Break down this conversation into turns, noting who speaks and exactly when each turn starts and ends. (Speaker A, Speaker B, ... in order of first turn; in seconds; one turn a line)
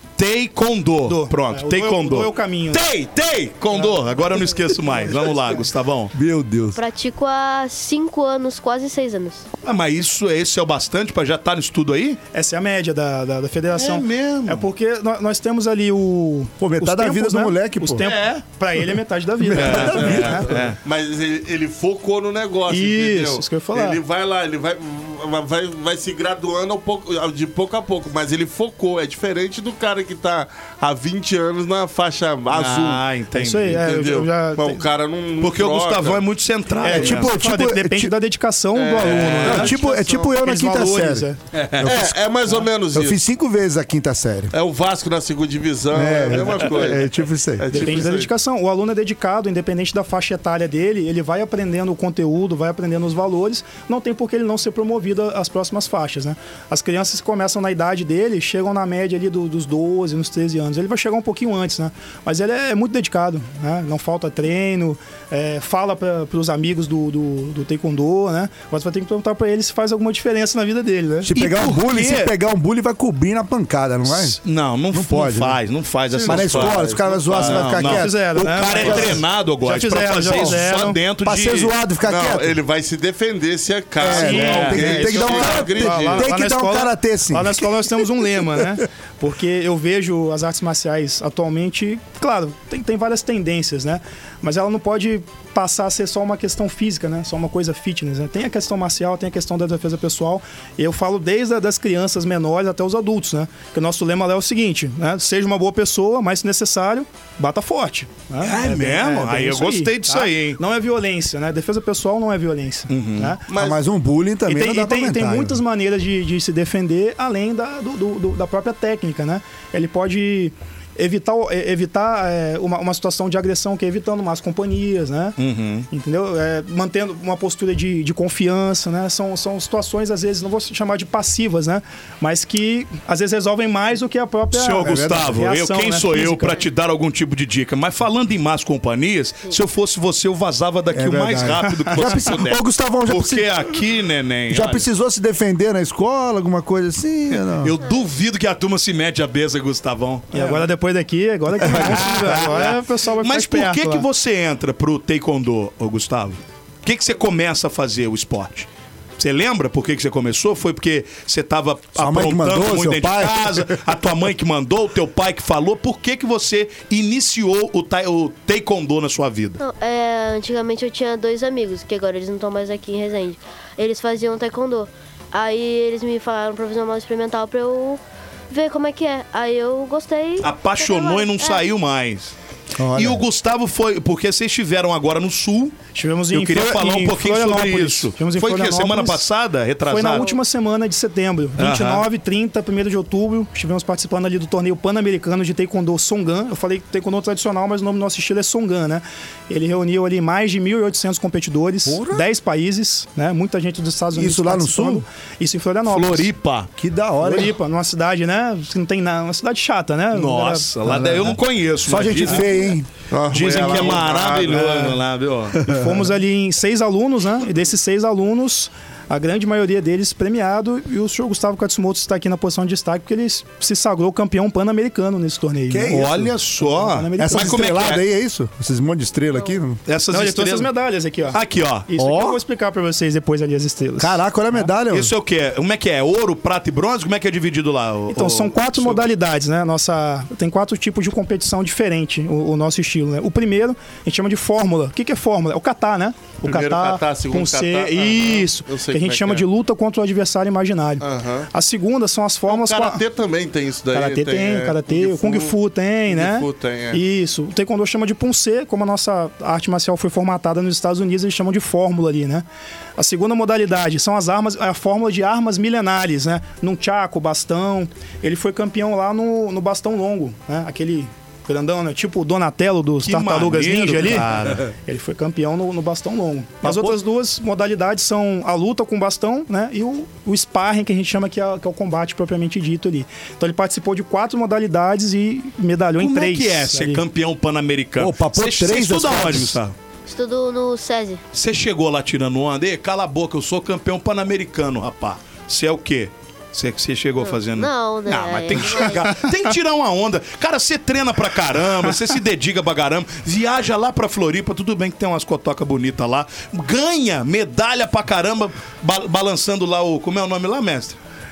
Speaker A: 0.2-6.1
Speaker B: 1.1-2.9
Speaker B: 3.7-4.0
Speaker C: 6.1-6.8
Speaker D: 6.8-9.5
Speaker A: 9.6-12.2
Speaker B: 12.3-20.6
Speaker A: 13.7-14.7
Speaker C: 16.6-18.1
Speaker C: 19.4-20.4
Speaker A: 19.5-20.8
Speaker E: 19.6-33.0
Speaker B: 22.7-24.0
Speaker A: 32.5-33.8
Speaker B: 33.4-34.8
Speaker E: 33.7-36.2
Speaker A: 35.4-37.3
Speaker B: 36.8-41.4
Speaker C: 36.9-38.1
Speaker E: 38.7-40.3
Speaker A: 39.0-39.6
Speaker C: 39.4-42.2
Speaker A: 41.5-42.0
Speaker E: 41.8-43.2
Speaker C: 42.9-44.5
Speaker E: 44.5-48.3
Speaker C: 45.9-47.7
Speaker B: 46.3-46.6
Speaker B: 47.7-71.3
Speaker C: 71.2-74.4
Speaker A: 71.3-72.3
Speaker A: 74.0-81.7
Speaker C: 74.9-75.6
Speaker E: 76.1-77.7
Speaker C: 76.3-79.2
Speaker B: 77.8-81.0
Speaker C: 80.3-80.6
Speaker C: 81.2-82.6
Speaker E: 82.0-86.3
Speaker C: 84.0-88.0
Speaker B: 84.1-113.4
Speaker A: 84.3-84.9
Speaker A: 108.4-110.6
Speaker A: 112.9-113.4
Speaker E: 113.5-113.8
Speaker C: 113.5-115.6
Speaker B: 114.5-125.4
Speaker A: 125.4-125.9
Speaker B: 125.9-136.6
Speaker A: 134.5-144.9
Speaker C: 134.8-135.5
Speaker C: 140.9-143.6
Speaker B: 141.7-142.0
Speaker C: 144.5-147.7
Speaker A: 147.3-150.7
Speaker B: 150.3-154.1
Speaker A: 151.6-169.6
Speaker C: 151.6-152.1
Speaker C: 162.0-163.8
Speaker D: 169.6-181.7
Speaker A: 180.4-182.3
Speaker C: 182.8-183.2
Speaker A: 182.9-185.8
Speaker B: 185.9-189.2
Speaker A: 186.3-190.3
Speaker B: 189.8-206.3
Speaker A: 191.6-192.1
Speaker C: 201.9-202.2
Speaker C: 204.1-205.1
Speaker A: 205.9-206.7
Speaker C: 206.8-207.6
Speaker B: 207.2-210.7
Speaker A: 210.1-212.6
Speaker C: 210.8-212.9
Speaker E: 213.1-214.9
Speaker A: 213.3-215.6
Speaker B: 215.6-227.9
Speaker C: 225.7-226.3
Speaker A: 225.9-228.0
Speaker C: 227.2-229.8
Speaker A: 229.9-230.7
Speaker B: 230.1-234.7
Speaker A: 231.3-231.9
Speaker C: 232.0-232.4
Speaker C: 234.0-235.1
Speaker A: 234.9-239.1
Speaker B: 238.1-253.0
Speaker E: 246.4-249.4
Speaker E: 251.0-251.5
Speaker E: 252.5-255.6
Speaker B: 253.9-262.4
Speaker E: 256.1-257.0
Speaker B: 263.0-287.0
Speaker A: 273.0-274.7
Speaker A: 276.6-276.9
Speaker A: 286.0-289.8
Speaker C: 288.0-289.6
Speaker D: 290.1-291.2
Speaker A: 291.3-311.0
Speaker D: 297.2-299.2